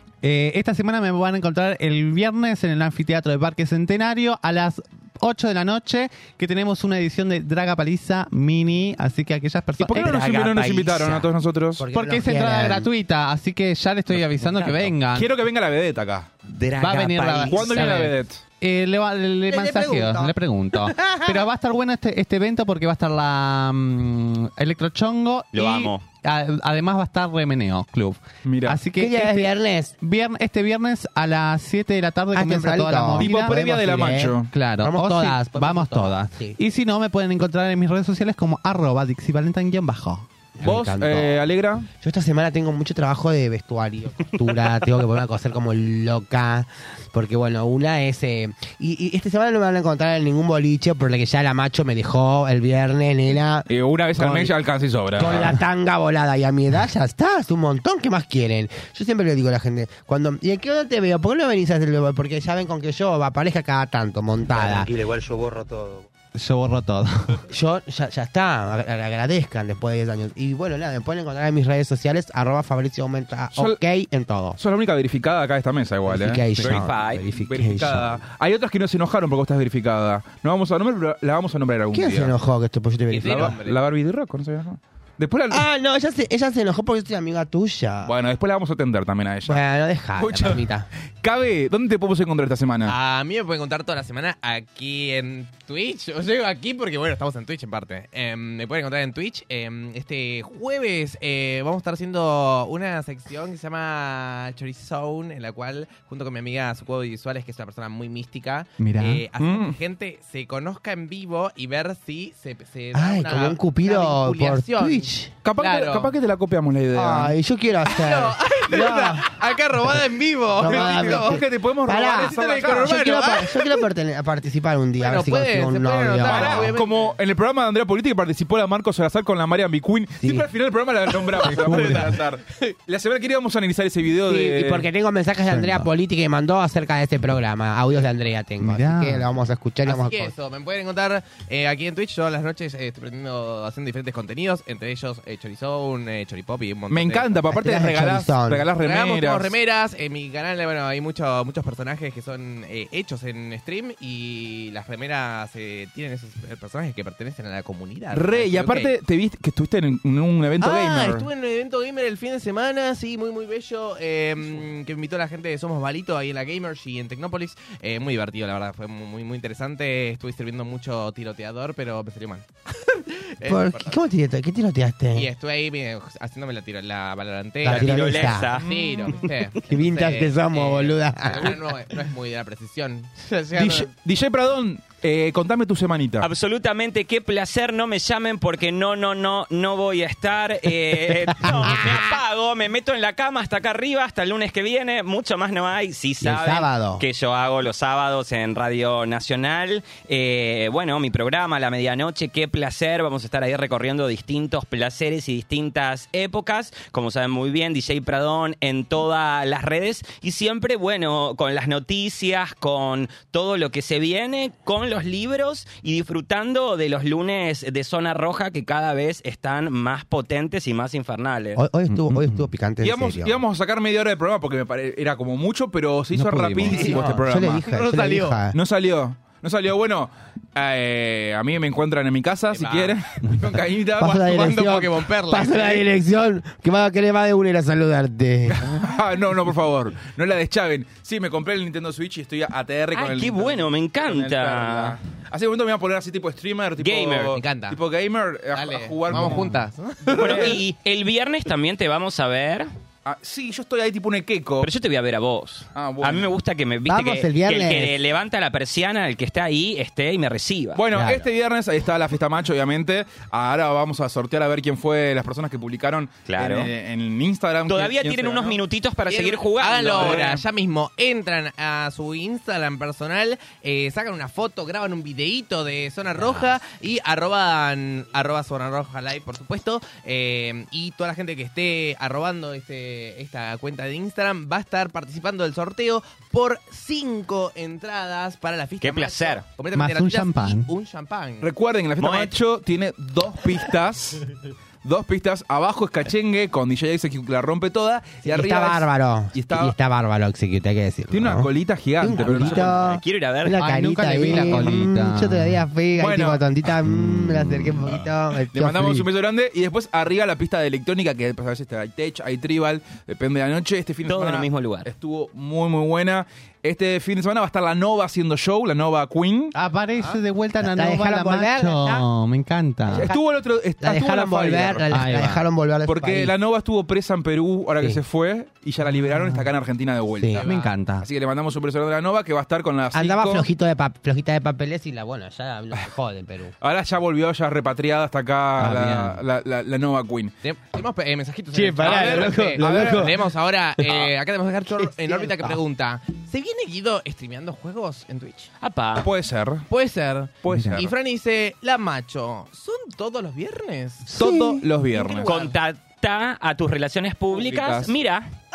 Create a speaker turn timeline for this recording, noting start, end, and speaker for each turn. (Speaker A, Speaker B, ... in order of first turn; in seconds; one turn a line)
Speaker A: 0.2-10.2
Speaker B: 9.8-11.8
Speaker C: 10.0-11.3
Speaker D: 11.8-12.9
Speaker A: 11.9-15.3
Speaker C: 14.5-14.8
Speaker B: 15.1-16.3
Speaker C: 16.5-18.1
Speaker A: 16.8-33.5
Speaker B: 17.5-18.4
Speaker D: 19.5-20.3
Speaker D: 20.9-21.5
Speaker C: 25.5-26.0
Speaker B: 28.4-28.8
Speaker D: 29.0-29.9
Speaker D: 32.3-36.6
Speaker B: 33.2-34.5
Speaker A: 34.5-40.2
Speaker D: 40.6-41.4
Speaker B: 40.6-41.9
Speaker D: 42.0-54.6
Speaker B: 53.7-55.6
Speaker D: 55.2-65.1
Speaker A: 66.3-67.4
Speaker D: 67.5-74.6
Speaker B: 74.6-82.3
Speaker D: 76.1-78.2
Speaker C: 76.7-77.3
Speaker D: 81.9-83.6
Speaker E: 83.1-83.8
Speaker B: 83.2-85.7
Speaker D: 85.5-88.1
Speaker B: 88.0-89.6
Speaker D: 89.5-90.9
Speaker B: 90.2-90.7
Speaker B: 91.2-93.0
Speaker E: 92.8-116.1
Speaker A: 108.8-109.2
Speaker B: 109.4-109.8
Speaker D: 112.9-115.3
Speaker B: 115.4-117.3
Speaker D: 116.9-119.4
Speaker E: 117.9-121.5
Speaker D: 120.5-126.7
Speaker B: 120.6-123.4
Speaker E: 122.2-123.8
Speaker E: 125.0-127.2
Speaker B: 126.3-134.9
Speaker D: 130.2-130.5
Speaker E: 131.2-132.8
Speaker A: 131.5-132.2
Speaker D: 134.3-140.3
Speaker A: 135.5-135.9
Speaker A: 138.6-139.3
Speaker E: 139.8-147.5
Speaker B: 146.9-149.6
Speaker D: 147.5-148.7
Speaker E: 148.8-158.9
Speaker B: 158.1-161.3
Speaker E: 160.6-174.0
Speaker D: 173.4-175.3
Speaker E: 175.1-183.9
Speaker D: 177.6-178.5
Speaker C: 177.7-178.7
Speaker B: 178.1-179.3
Speaker D: 179.6-181.7
Speaker B: 183.6-186.3
Speaker C: 186.2-221.6
Speaker D: 191.1-192.2
Speaker D: 196.2-197.0
Speaker D: 221.6-223.4
Speaker A: 221.9-222.5
Speaker B: 222.8-227.6
Speaker A: 226.1-227.0
Speaker D: 226.7-228.6
Speaker E: 226.8-227.1
Speaker E: 227.7-228.4
Speaker B: 228.5-234.1
Speaker E: 232.5-235.9
Speaker D: 234.0-238.8
Speaker B: 238.5-249.5
Speaker C: 242.9-245.0
Speaker C: 246.8-247.4
Speaker E: 247.3-247.8
Speaker E: 248.5-250.6
Speaker A: 249.1-249.6
Speaker B: 250.0-250.6
Speaker C: 250.2-252.7
Speaker B: 253.1-254.7
Speaker C: 254.6-260.8
Speaker B: 255.8-256.3
Speaker D: 256.9-258.0
Speaker B: 260.8-268.6
Speaker D: 260.9-261.3
Speaker C: 266.3-266.7
Speaker C: 267.7-270.2
Speaker E: 269.1-291.5
Speaker B: 269.9-270.4
Speaker C: 276.2-276.5
Speaker C: 288.8-289.5
Speaker A: 289.8-290.7
Speaker B: 291.4-294.3
Speaker C: 292.0-292.4
Speaker B: 294.8-299.8
Speaker D: 298.2-309.1
Speaker B: 301.1-302.8
Speaker C: 302.2-303.6
Speaker A: 303.6-305.6
Speaker B: 306.0-306.4
Speaker A: 306.9-307.7
Speaker B: 308.4-319.6
Speaker C: 314.1-314.9
Speaker A: 319.5-323.1
Speaker D: 320.6-322.1
Speaker B: 322.9-324.9
Speaker D: 323.8-326.3
Speaker A: 324.9-325.5
Speaker B: 325.9-330.5
Speaker A: 328.9-329.5
Speaker E: 330.4-330.7
Speaker A: 330.4-331.1
Speaker B: 331.0-333.5
Speaker D: 332.9-336.6
Speaker B: 336.6-340.4
Speaker A: 338.6-339.2
Speaker E: 340.4-348.5
Speaker D: 341.5-343.2
Speaker B: 341.8-343.1
Speaker D: 344.8-345.6
Speaker C: 348.6-349.1
Speaker B: 349.0-349.7
Speaker E: 349.7-354.2
Speaker B: 350.4-350.9
Speaker A: 350.5-350.9
Speaker D: 354.1-354.7
Speaker B: 354.1-355.4
Speaker E: 354.9-355.6
Speaker C: 355.3-358.3
Speaker B: 357.3-357.9